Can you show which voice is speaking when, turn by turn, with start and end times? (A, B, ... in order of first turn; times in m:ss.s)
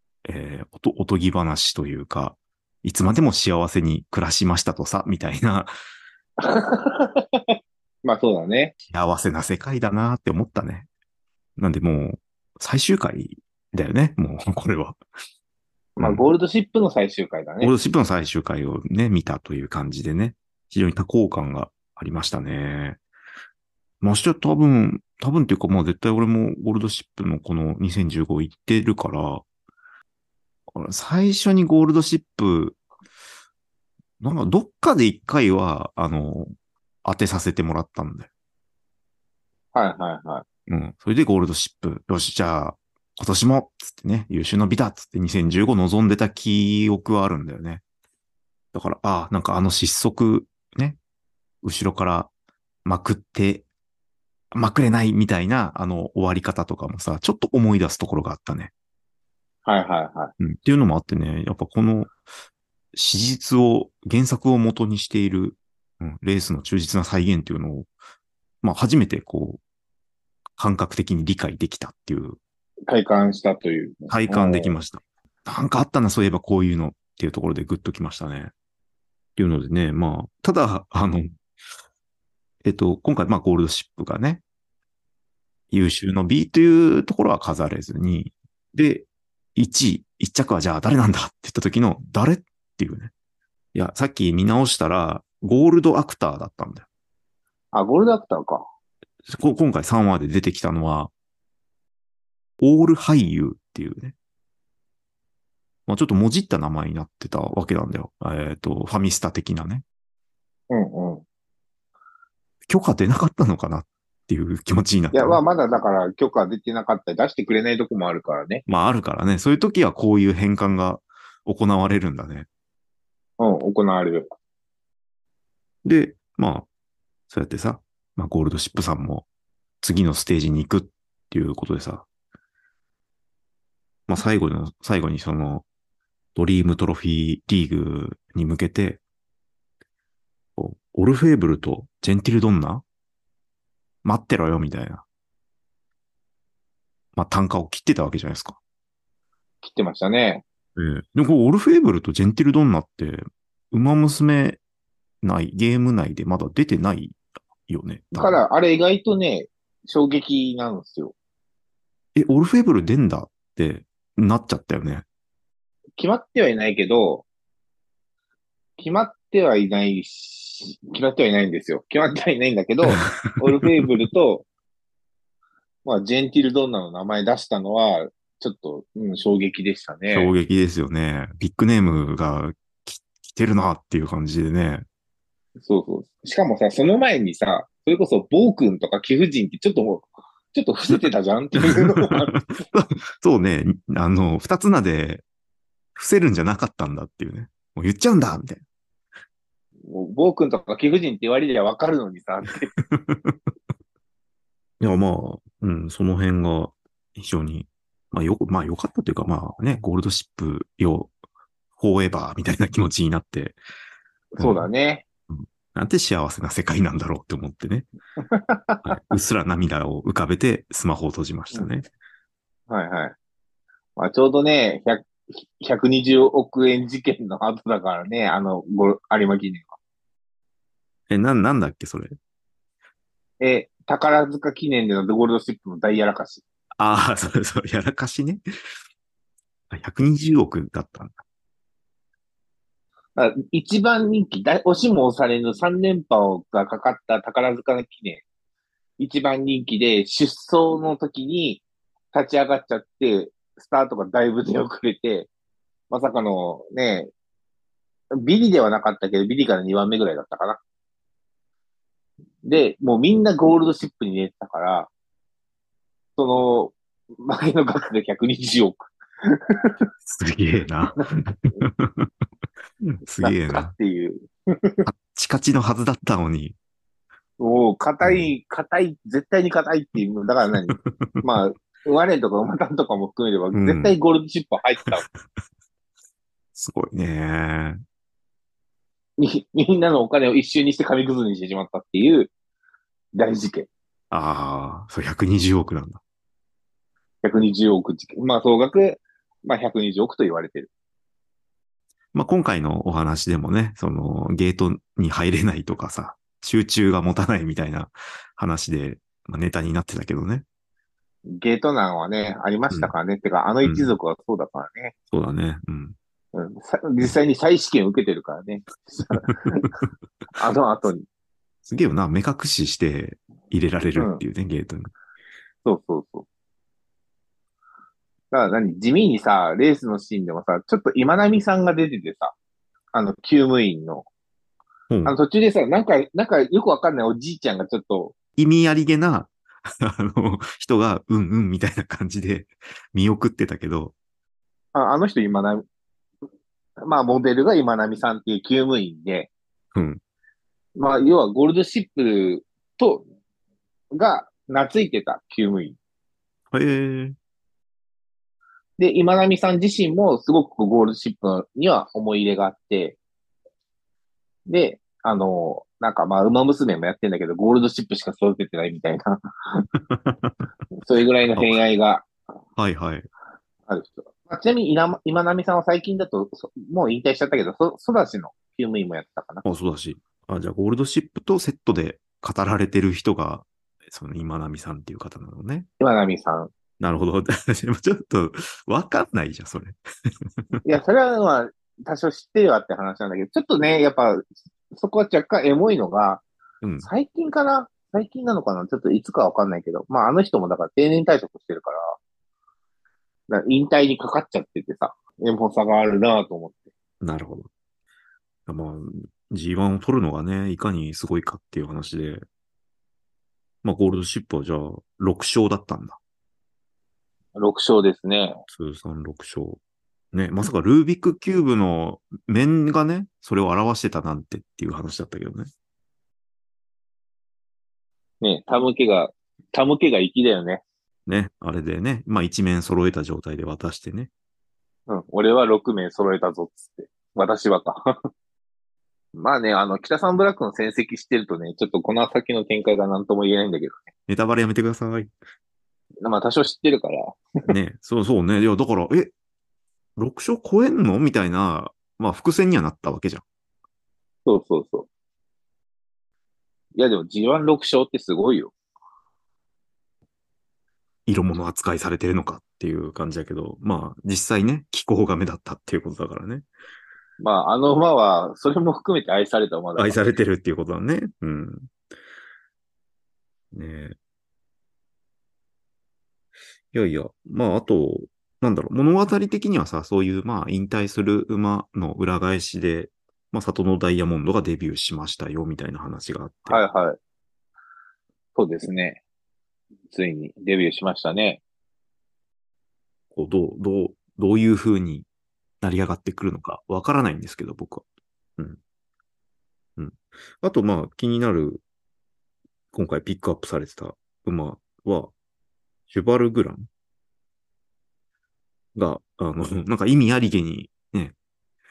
0:00.2-0:05.7 A
0:06.4-0:08.7 B
0:08.9-0:10.9 A
0:11.6-0:15.0 A
0:16.0-0:17.7 B
0:16.0-0:16.3 A
0:17.6-0:23.0 A
0:24.0-0:29.4 A
0:30.8-0:32.8 A
0:34.2-0:36.5 A
0:37.0-0:38.3 A
0:39.7-0:40.4 B
0:40.7-0:47.8 A
0:48.7-0:51.0 A
0:51.6-0:52.3 A
0:52.8-0:53.7 A
0:54.5-0:58.7 A
0:59.6-1:00.3 B
1:00.4-1:02.2 A
1:02.9-1:07.9 A
1:08.6-1:09.6 A
1:10.6-1:12.4 A
1:12.9-1:14.8 B
1:14.1-1:18.5 A
1:19.4-1:21.3 A
1:22.6-1:24.4 A
1:25.7-1:33.1 A
1:33.8-1:36.9 A
1:37.7-1:38.7 B
1:39.3-1:41.1 A
1:42.6-1:44.1 A
1:45.9-1:49.8 A
1:50.7-1:51.2 B
1:52.7-1:55.4 A
1:55.1-1:58.6 B
1:58.7-2:02.5 A
2:03.4-2:04.3 B
2:05.8-2:06.7 A
2:07.3-2:09.3 A
2:09.8-2:12.1 A
2:14.1-2:15.6 A
2:16.4-2:19.0 A
2:20.6-2:22.8 A
2:24.0-2:25.0 A
2:27.2-2:28.6 A
2:29.6-2:30.4 B
2:30.8-2:34.6 A
2:35.2-2:38.4 A
2:38.1-2:41.1 B
2:42.2-2:45.0 A
2:46.0-2:47.3 B
2:48.8-2:54.5 B
2:52.9-2:53.6 A
2:55.8-3:00.3 B
3:00.1-3:04.8 A
3:05.6-3:12.5 B
3:11.6-3:15.2 A
3:16.0-3:18.6 A
3:19.9-3:22.8 B
3:22.9-3:23.4 A
3:24.8-3:31.1 A
3:31.8-3:33.6 A
3:34.3-3:35.0 B
3:34.4-3:34.7 A
3:35.3-3:37.9 A
3:38.3-3:39.0 B
3:38.8-3:41.9 A
3:42.7-3:43.2 B
3:44.0-3:49.8 B
3:51.1-3:52.2 A
3:53.4-3:56.4 B
3:56.8-3:58.4 A
3:59.7-4:01.2 A
4:03.2-4:08.2 B
4:09.0-4:15.3 B
4:15.9-4:17.1 B
4:18.1-4:20.6 B
4:22.4-4:24.9 B
4:26.2-4:29.7 B
4:30.1-4:32.1 A
4:33.0-4:33.7 A
4:33.2-4:34.9 B
4:34.8-4:36.6 A
4:37.4-4:45.0 B
4:38.0-4:38.3 A
4:40.8-4:41.2 A
4:43.5-4:44.0 A
4:46.6-4:47.8 A
4:49.2-4:52.3 B
4:53.1-4:53.7 B
4:54.1-4:56.0 A
4:57.2-5:00.7 B
5:02.1-5:10.4 A
5:11.3-5:14.9 B
5:13.6-5:14.0 A
5:15.1-5:16.0 A
5:16.3-5:19.7 B
5:20.4-5:21.0 B
5:21.6-5:24.9 A
5:24.0-5:24.2 B
5:25.6-5:26.3 B
5:28.3-5:32.3 B
5:32.9-5:34.1 B
5:34.9-5:35.2 A
5:35.1-5:38.1 B
5:38.4-5:44.0 A
5:44.8-5:45.6 B
5:46.8-5:49.3 B
5:49.8-5:50.0 A
5:50.8-5:53.0 B
5:54.0-5:55.8 B
5:56.5-5:57.2 A
5:58.8-6:03.0 B
6:04.5-6:09.6 B
6:09.9-6:10.4 A
6:10.8-6:12.1 B
6:12.6-6:13.1 A
6:13.7-6:19.4 B
6:19.4-6:25.7 A
6:25.8-6:26.5 B
6:26.8-6:29.8 A
6:30.6-6:36.2 B
6:36.6-6:36.9 A
6:36.8-6:42.0 B
6:43.3-6:46.6 B
6:47.0-6:47.5 A
6:48.5-6:52.2 A
6:53.6-6:56.0 A
6:57.4-6:58.4 B
6:58.5-6:59.6 A
7:00.1-7:05.5 A
7:08.2-7:10.6 B
7:11.1-7:14.1 A
7:14.9-7:18.0 B
7:19.2-7:23.8 B
7:24.1-7:25.1 A
7:26.0-7:27.2 B
7:27.5-7:29.1 A
7:30.0-7:33.2 A
7:34.2-7:34.9 B
7:36.8-7:38.5 B
7:41.1-7:46.5 A
7:47.2-7:50.2 B
7:49.8-7:51.7 A
7:53.5-7:54.0 A
7:56.7-8:06.6 A
8:06.5-8:07.0 B
8:08.4-8:09.0 B
8:09.9-8:11.4 B
8:13.1-8:15.1 A
8:15.6-8:17.8 A
8:19.8-8:21.6 A
8:22.7-8:25.1 A
8:25.9-8:26.7 A
8:28.8-8:31.2 A